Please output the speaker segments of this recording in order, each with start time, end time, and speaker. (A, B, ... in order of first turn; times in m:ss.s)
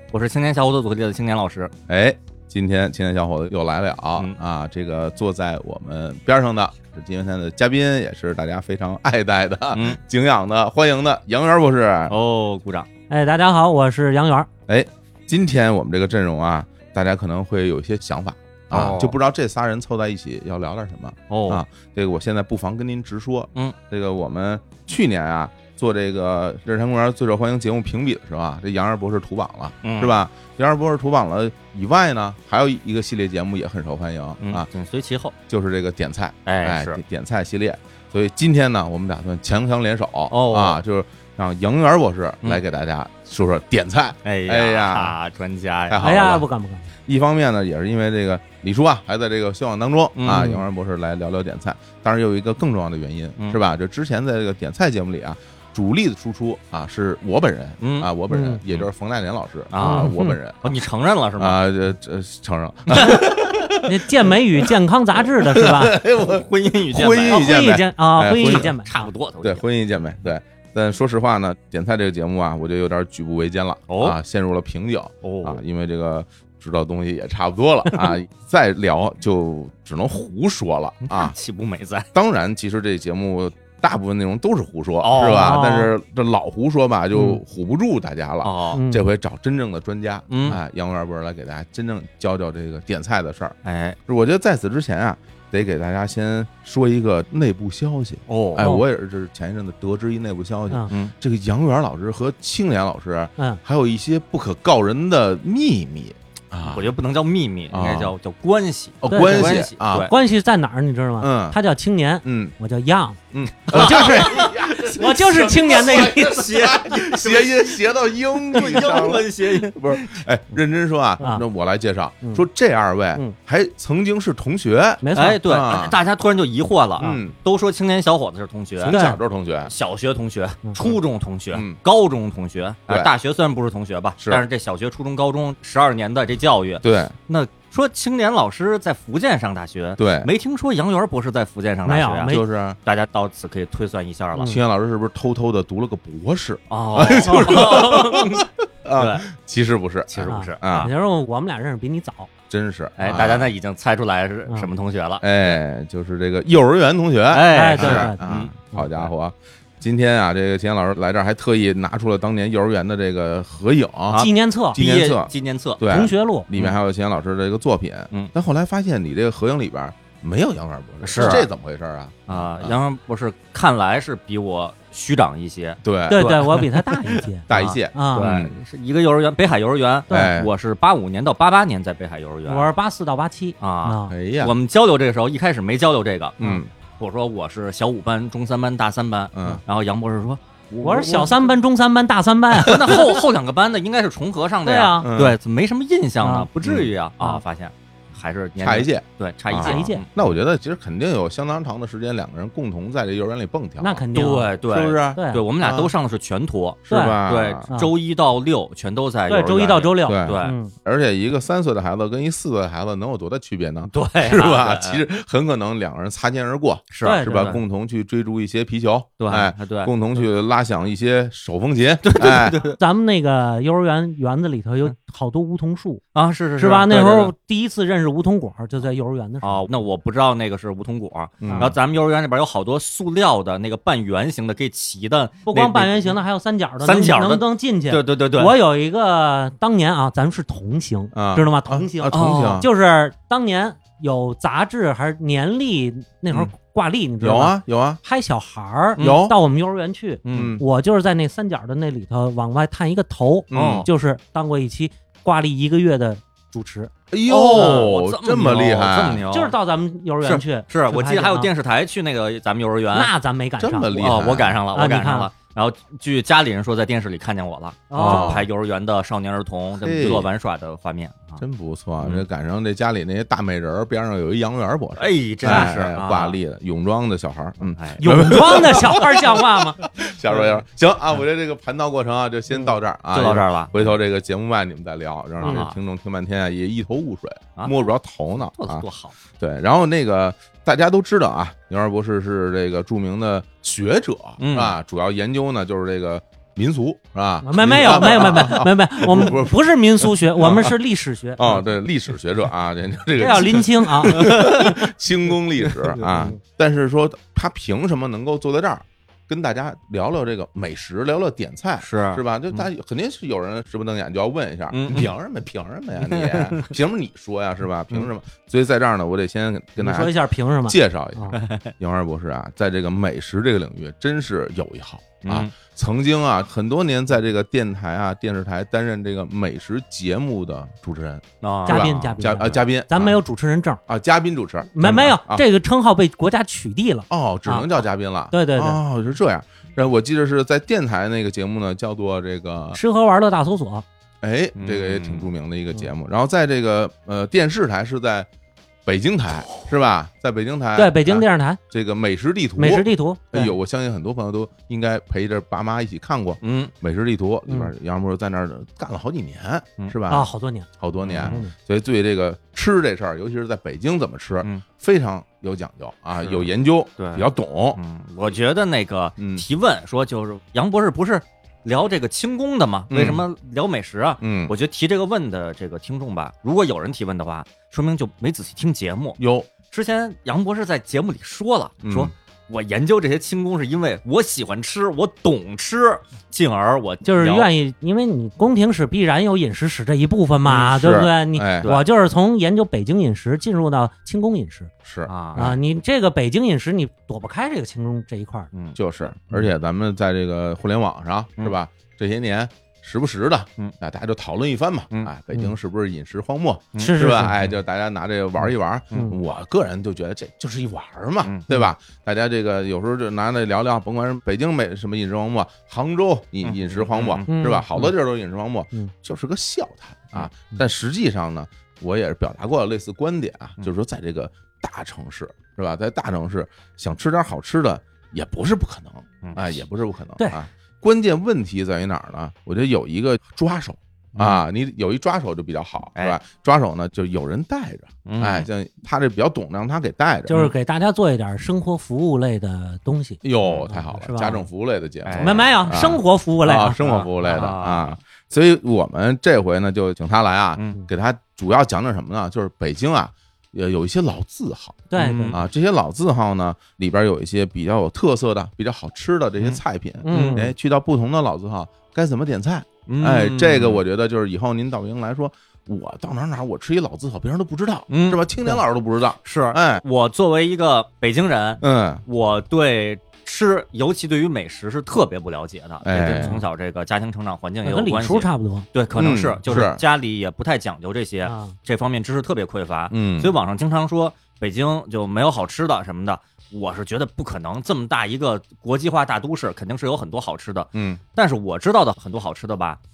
0:00.1-0:01.7 A
0:01.9-0:12.2 B
0:09.7-0:10.0 A
0:12.1-0:12.9 A
0:13.1-0:14.5 C
0:14.7-0:34.7 B
0:18.7-0:19.2 A
0:21.3-0:21.6 A
0:29.8-0:30.2 A
0:34.4-0:35.3 A
0:35.5-0:45.2 B
0:36.4-0:37.0 A
0:40.3-0:40.8 A
0:44.2-0:46.4 A
0:45.9-0:46.4 B
0:46.0-0:46.9 C
0:47.0-1:00.8 B
0:50.2-0:50.6 A
0:57.8-0:58.1 A
0:58.3-0:58.6 C
0:59.7-1:01.6 A
0:59.8-1:00.4 C
1:01.4-1:08.7 B
1:02.9-1:03.2 A
1:03.8-1:06.0 C
1:06.1-1:07.6 A
1:07.3-1:09.1 C
1:08.5-1:09.6 A
1:09.4-1:21.3 B
1:13.9-1:14.2 A
1:15.2-1:15.6 A
1:17.9-1:18.2 A
1:21.0-1:22.0 A
1:22.1-1:33.6 B
1:25.0-1:25.7 A
1:25.3-1:25.9 C
1:28.4-1:28.8 A
1:28.7-1:29.1 C
1:30.3-1:30.6 A
1:33.6-1:34.0 A
1:34.1-1:46.9 B
1:38.3-1:38.7 A
1:38.6-1:38.8 C
1:46.6-1:50.1 A
1:47.7-1:48.1 B
1:49.0-1:50.1 B
1:49.1-1:56.4 C
1:51.2-1:51.6 B
1:52.2-1:52.5 B
1:53.3-2:06.0 B
1:53.7-1:54.5 A
1:55.7-1:57.8 A
1:58.5-2:00.2 A
2:01.2-2:01.4 C
2:05.0-2:05.4 C
2:05.1-2:09.0 A
2:07.0-2:07.4 B
2:08.8-2:09.7 B
2:08.8-2:09.2 C
2:09.6-2:24.5 A
2:11.5-2:11.8 B
2:14.2-2:14.4 B
2:16.8-2:17.1 B
2:20.0-2:20.3 B
2:21.8-2:22.4 C
2:22.2-2:22.8 B
2:24.4-2:30.9 B
2:26.7-2:29.2 A
2:27.3-2:27.7 C
2:30.1-2:30.9 A
2:30.3-2:32.3 C
2:32.5-2:33.5 B
2:33.0-2:35.6 A
2:35.2-2:52.8 B
2:37.3-2:39.1 A
2:37.5-2:38.9 C
2:44.1-2:45.8 A
2:44.1-2:44.8 C
2:45.9-2:46.5 C
2:51.0-2:51.5 A
2:51.1-2:51.4 C
2:52.3-3:02.6 A
2:55.8-2:56.3 B
2:56.1-2:58.2 C
2:57.5-2:58.6 B
3:00.1-3:00.5 B
3:02.4-3:04.1 C
3:03.6-3:10.4 A
3:04.1-3:04.5 B
3:06.4-3:06.7 B
3:09.3-3:09.6 B
3:10.7-3:11.5 B
3:10.8-3:13.1 C
3:12.6-3:20.1 A
3:14.6-3:15.1 C
3:15.0-3:15.4 B
3:16.2-3:16.5 C
3:16.6-3:16.9 B
3:18.6-3:25.9 B
3:19.6-3:20.0 C
3:23.8-3:24.5 C
3:24.1-3:30.5 A
3:25.1-3:25.4 C
3:26.8-3:27.7 B
3:26.9-3:27.2 C
3:29.3-3:30.7 C
3:30.0-3:42.6 B
3:33.9-3:35.0 A
3:36.9-3:37.6 A
3:37.0-3:37.6 C
3:39.2-3:39.9 A
3:42.0-3:42.8 A
3:42.7-3:46.0 C
3:46.1-3:47.3 A
3:46.6-3:49.7 C
3:49.4-3:56.2 A
3:51.4-3:51.7 B
3:51.4-3:51.7 C
3:55.5-4:17.9 C
3:56.8-3:58.6 A
4:01.1-4:02.7 B
4:02.1-4:02.6 A
4:07.2-4:08.0 B
4:09.0-4:09.4 B
4:10.2-4:10.6 A
4:10.3-4:10.6 B
4:13.5-4:13.9 B
4:13.5-4:13.9 A
4:17.1-4:19.2 B
4:17.3-4:19.5 A
4:19.3-4:21.5 C
4:20.2-4:23.1 A
4:22.9-4:24.0 C
4:23.6-4:24.6 B
4:24.0-4:31.4 A
4:24.7-4:25.3 C
4:27.9-4:28.4 C
4:28.0-4:28.5 B
4:29.8-4:30.3 B
4:31.4-4:48.8 B
4:32.0-4:32.2 A
4:35.0-4:36.4 A
4:35.4-4:35.7 C
4:37.7-4:38.4 A
4:38.0-4:39.8 C
4:43.1-4:43.9 A
4:45.4-4:45.8 A
4:48.4-4:49.2 A
4:49.4-4:59.6 B
4:54.4-4:54.8 A
4:57.4-5:01.5 C
4:58.0-4:58.6 A
5:00.4-5:00.8 B
5:01.4-5:33.2 B
5:03.2-5:04.4 C
5:04.1-5:04.8 A
5:06.0-5:06.4 C
5:11.8-5:12.7 A
5:14.7-5:15.1 A
5:16.0-5:16.8 A
5:19.8-5:21.4 C
5:21.3-5:21.7 A
5:25.2-5:25.5 A
5:31.4-5:31.9 A
5:31.6-5:33.8 C
5:33.9-5:35.4 B
5:34.7-5:37.7 C
5:37.1-5:42.8 B
5:38.3-5:38.8 C
5:42.7-5:43.8 C
5:44.2-5:48.3 B
5:44.6-5:45.2 A
5:48.8-6:00.3 B
5:50.8-5:51.6 C
5:52.6-5:53.5 C
5:56.4-5:56.7 A
6:00.1-6:00.7 C
6:00.8-6:07.8 B
6:01.0-6:01.4 A
6:01.2-6:01.5 C
6:06.2-6:27.5 A
6:09.2-6:09.4 B
6:12.9-6:13.2 B
6:14.2-6:14.5 B
6:19.2-6:19.5 B
6:21.8-6:22.1 B
6:27.0-6:34.7 C
6:30.4-6:31.7 B
6:34.8-6:35.5 B
6:35.0-6:35.6 A
6:35.4-6:38.5 C
6:38.5-6:38.8 A
6:38.8-7:20.4 B
6:46.7-6:47.5 A
6:46.8-6:47.3 C
6:56.4-6:57.9 A
6:57.3-6:57.6 C
7:09.2-7:09.5 A
7:18.0-7:18.5 A
7:20.3-7:24.4 C
7:23.2-7:49.8 B
7:25.0-7:25.5 A
7:25.2-7:27.0 C
7:26.8-7:28.0 A
7:34.9-7:35.4 C
7:35.0-7:35.4 A
7:39.4-7:40.4 A
7:40.0-7:40.5 C
7:42.9-7:43.8 A
7:47.9-7:48.2 A
7:49.2-8:12.8 A
7:51.6-7:52.0 B
7:55.8-7:56.4 B
7:57.6-7:58.7 C
7:58.9-7:59.8 B
8:01.2-8:01.6 C
8:02.9-8:03.4 B
8:10.7-8:11.0 B